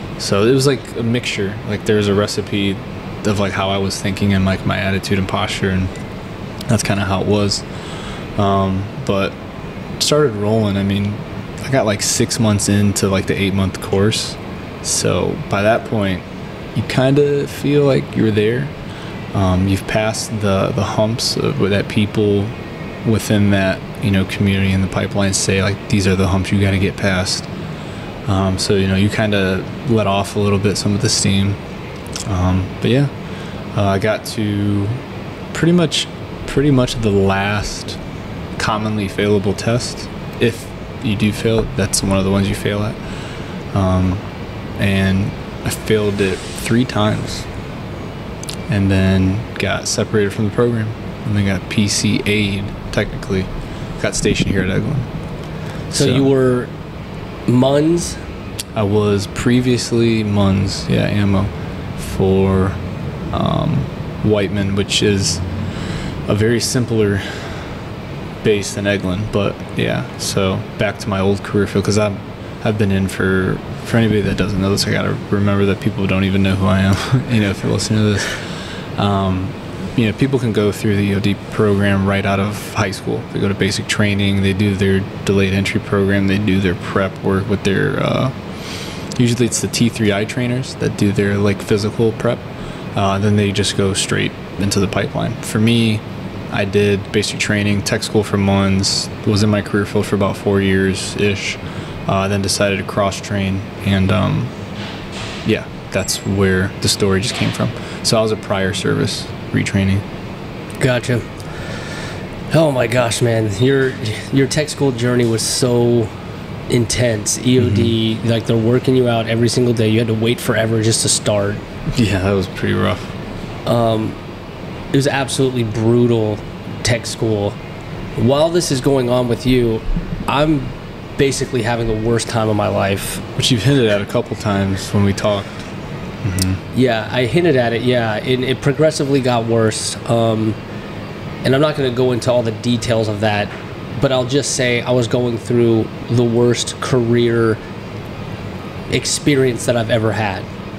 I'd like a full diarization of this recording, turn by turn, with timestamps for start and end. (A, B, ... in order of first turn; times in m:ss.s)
0:00.2-0:05.9 A
0:06.7-0:07.7 A
0:08.4-0:09.4 A
0:10.0-0:18.7 A
0:19.3-0:22.5 A
0:23.0-0:27.5 A
0:28.3-0:31.6 A
0:32.3-0:33.1 A
0:33.8-0:35.0 A
0:35.5-0:38.0 A
0:38.6-0:43.0 A
0:43.7-0:44.2 A
0:44.8-0:47.5 A
0:48.7-0:55.1 A
0:55.9-0:56.3 A
0:55.9-0:56.7 B
0:57.5-0:58.2 B
0:58.8-1:02.8 A
1:03.3-1:05.4 A
1:06.3-1:07.7 A
1:08.4-1:28.3 A
1:29.2-1:44.5 A
1:45.4-1:50.0 A
1:50.8-1:51.3 B
1:52.5-1:56.1 B
1:56.7-2:01.6 B
1:57.6-1:57.9 A
2:01.9-2:03.1 A
2:03.7-2:04.2 B
2:04.9-2:07.6 B
2:08.2-2:13.2 B
2:13.4-2:15.7 A
2:16.2-2:16.6 A
2:16.7-2:20.6 B
2:21.4-2:27.6 B
2:28.9-2:30.5 B